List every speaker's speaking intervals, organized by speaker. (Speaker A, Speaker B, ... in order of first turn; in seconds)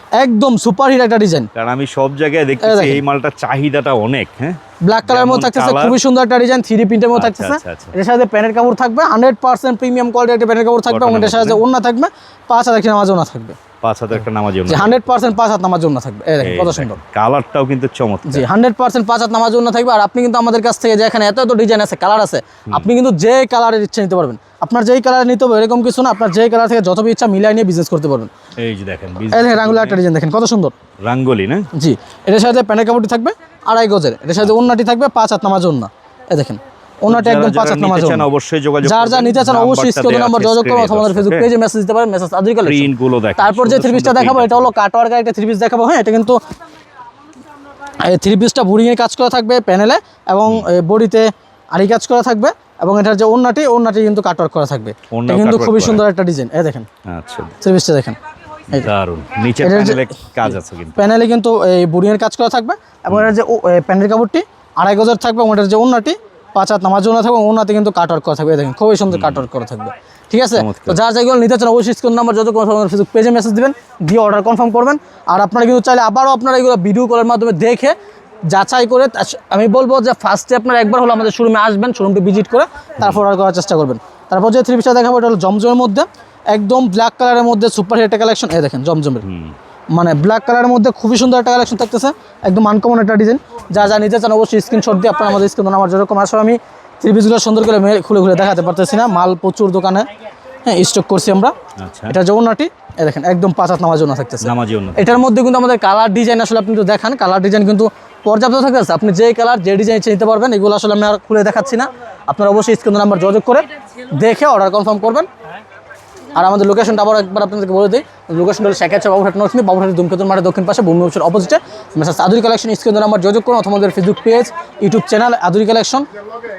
Speaker A: 0.2-1.5, 2.6-3.0, 4.8-13.6, 14.7-17.0, 18.2-28.3, 29.3-30.7, 31.7-38.2, 38.8-46.4, 48.0-56.9, 57.6-58.1, 59.6-77.9, 78.5-89.2, 89.9-100.0, 100.6-101.5, 102.1-115.3, 116.3-126.1
Speaker B: 1.5-6.0, 7.1-7.9, 10.9-11.6, 13.8-15.0, 16.4-18.4, 28.6-30.0, 31.0-31.7, 34.4-34.7, 37.1-41.5, 42.6-44.7, 55.1-56.0, 57.0-57.5, 58.7-61.0, 69.1-69.4, 70.5-71.0, 89.2-89.5, 101.8-102.2, 104.4-105.2